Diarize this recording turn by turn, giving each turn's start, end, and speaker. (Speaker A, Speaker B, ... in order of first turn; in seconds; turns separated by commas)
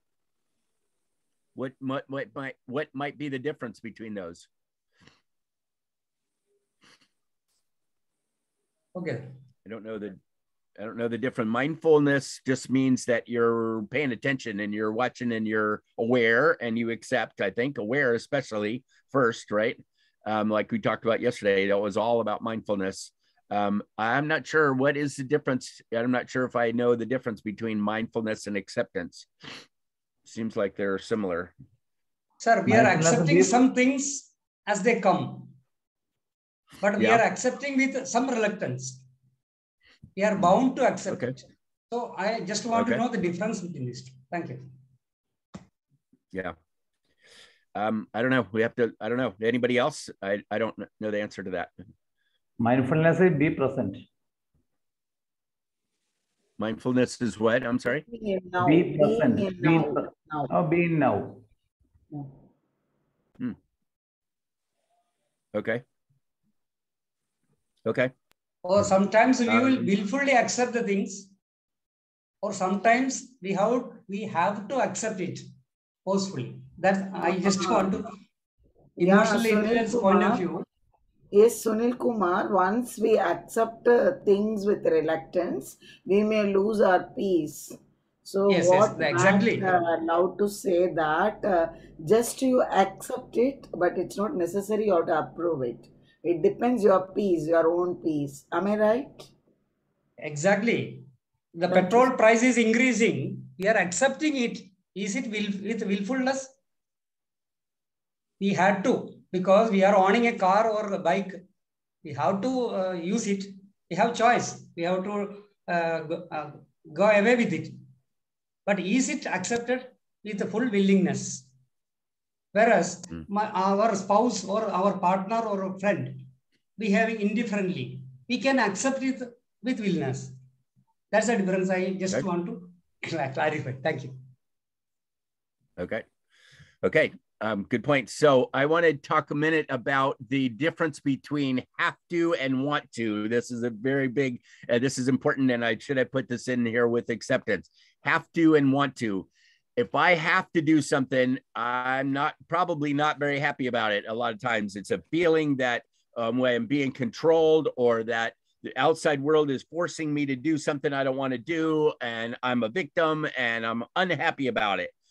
Speaker A: 1.5-4.5, Speaker B: 8.9-9.3, Speaker A: 9.7-10.2, Speaker A: 10.8-29.3, Speaker A: 30.2-31.5, Speaker B: 32.4-35.6, Speaker C: 32.7-33.5, Speaker B: 36.8-39.0, Speaker A: 37.0-37.2, Speaker B: 40.1-44.6, Speaker A: 41.1-41.3, Speaker A: 42.7-43.0, Speaker A: 47.7-51.7, Speaker C: 52.6-54.0, Speaker A: 56.6-58.0, Speaker D: 58.1-60.5, Speaker C: 58.6-61.4, Speaker A: 65.5-65.8, Speaker A: 67.8-68.1, Speaker B: 68.6-71.3, Speaker A: 69.5-69.9, Speaker B: 72.4-75.5, Speaker B: 76.0-78.1, Speaker D: 77.4-77.9, Speaker B: 79.0-80.6, Speaker D: 79.0-80.4, Speaker D: 81.3-99.3, Speaker B: 88.5-89.7, Speaker B: 100.2-101.1, Speaker D: 101.6-102.0, Speaker B: 101.6-106.5, Speaker B: 108.4-111.4, Speaker B: 112.0-117.8, Speaker B: 118.6-121.5, Speaker B: 122.5-126.2, Speaker B: 126.8-130.3, Speaker B: 131.1-134.2, Speaker A: 135.8-136.1, Speaker A: 136.8-164.9